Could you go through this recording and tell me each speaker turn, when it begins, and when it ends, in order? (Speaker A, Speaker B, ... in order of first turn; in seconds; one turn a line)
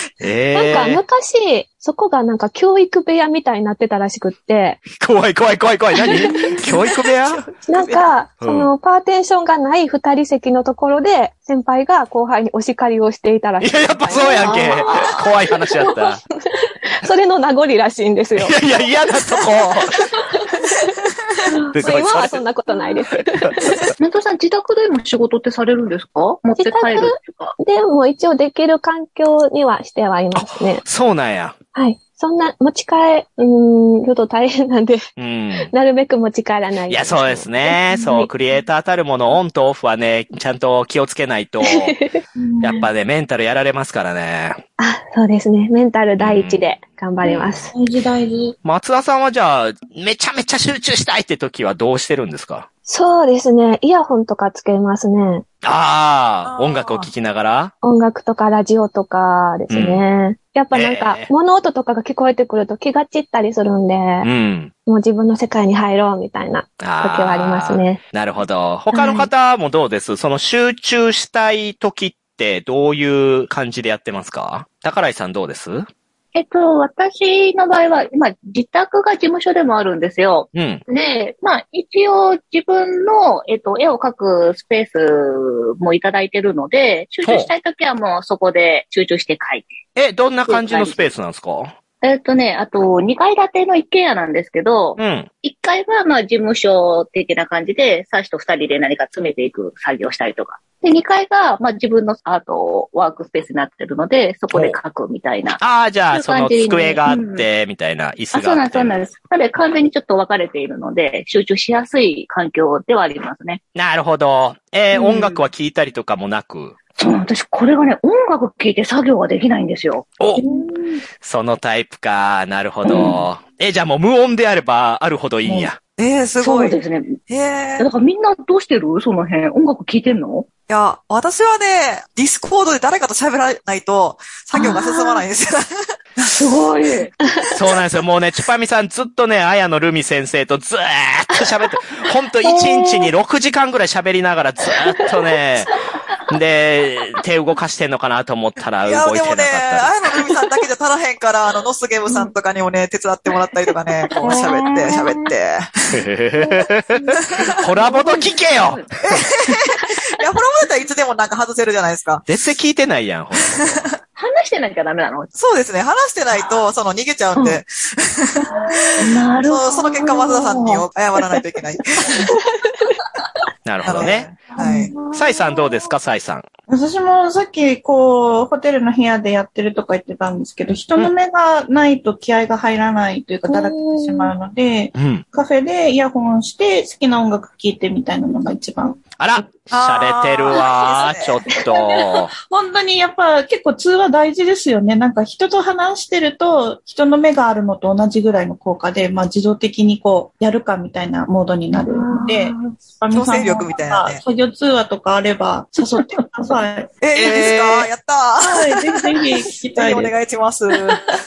Speaker A: 0.2-1.0
Speaker B: 0.5-4.8
Speaker A: 4.9-7.5
Speaker B: 6.0-6.6
Speaker B: 7.7-15.2
Speaker A: 8.4-8.7
Speaker A: 13.6-16.2
Speaker C: 14.4-15.2
Speaker B: 16.5-18.6
Speaker A: 18.4-20.0
Speaker B: 20.5-20.9
Speaker A: 21.7-22.4
Speaker B: 21.8-23.8
Speaker A: 23.1-23.9
Speaker C: 24.0-27.5
Speaker B: 26.6-30.8
Speaker A: 30.4-31.6
Speaker B: 31.7-35.1
Speaker A: 35.2-35.7
Speaker B: 35.6-38.2
Speaker A: 36.9-42.0
Speaker B: 41.6-42.2
Speaker D: 42.4-42.9
Speaker A: 42.6-44.6
Speaker B: 44.8-47.7
Speaker A: 46.2-46.6
Speaker D: 47.2-48.6
Speaker A: 47.4-47.6
Speaker A: 48.6-52.7
Speaker B: 52.9-55.5
Speaker A: 55.6-57.7
Speaker E: 56.5-57.1
Speaker B: 57.8-64.3
Speaker A: 59.7-60.0
Speaker A: 60.7-61.3
Speaker A: 64.2-64.7
Speaker B: 64.9-68.0
Speaker A: 66.8-75.9
Speaker B: 68.9-69.3
Speaker C: 76.3-89.8
Speaker A: 80.5-80.8
Speaker A: 87.2-87.5
Speaker A: 90.0-91.7
Speaker C: 90.5-91.1
Speaker C: 92.0-107.5
Speaker A: 95.0-95.3
Speaker A: 104.5-104.8
Speaker A: 105.6-108.9
Speaker C: 108.3-113.6
Speaker A: 113.8-116.8
Speaker C: 114.9-115.4
Speaker C: 117.0-120.5
Speaker D: 120.4-120.9
Speaker A: 121.2-125.8
Speaker C: 122.8-123.2
Speaker E: 125.8-127.9
Speaker C: 126.4-127.2
Speaker C: 127.8-130.5
Speaker E: 130.7-136.3
Speaker C: 134.6-134.9
Speaker C: 136.2-137.1
Speaker A: 137.5-145.7
Speaker B: 142.5-143.1
Speaker A: 146.3-149.9
Speaker E: 148.8-156.0
Speaker C: 154.2-154.8
Speaker B: 154.2-155.3
Speaker A: 155.9-157.1
Speaker E: 157.1-157.7
Speaker A: 157.6-159.2
Speaker C: 157.8-158.9
Speaker E: 159.0-162.3
Speaker A: 162.3-163.8
Speaker E: 163.4-164.0
Speaker C: 164.2-165.3
Speaker E: 165.3-172.3
Speaker C: 167.3-167.6
Speaker C: 168.5-170.8
Speaker A: 173.7-174.3
Speaker E: 173.8-174.9
Speaker D: 174.6-174.9
Speaker A: 175.1-176.4
Speaker D: 176.7-189.0
Speaker B: 183.5-184.3
Speaker A: 184.9-185.2
Speaker A: 189.2-192.3
Speaker E: 189.7-191.4
Speaker D: 191.5-206.9
Speaker B: 201.9-202.6
Speaker E: 203.1-204.2
Speaker E: 207.0-209.0
Speaker A: 207.2-207.9
Speaker D: 208.4-210.2
Speaker E: 209.7-211.1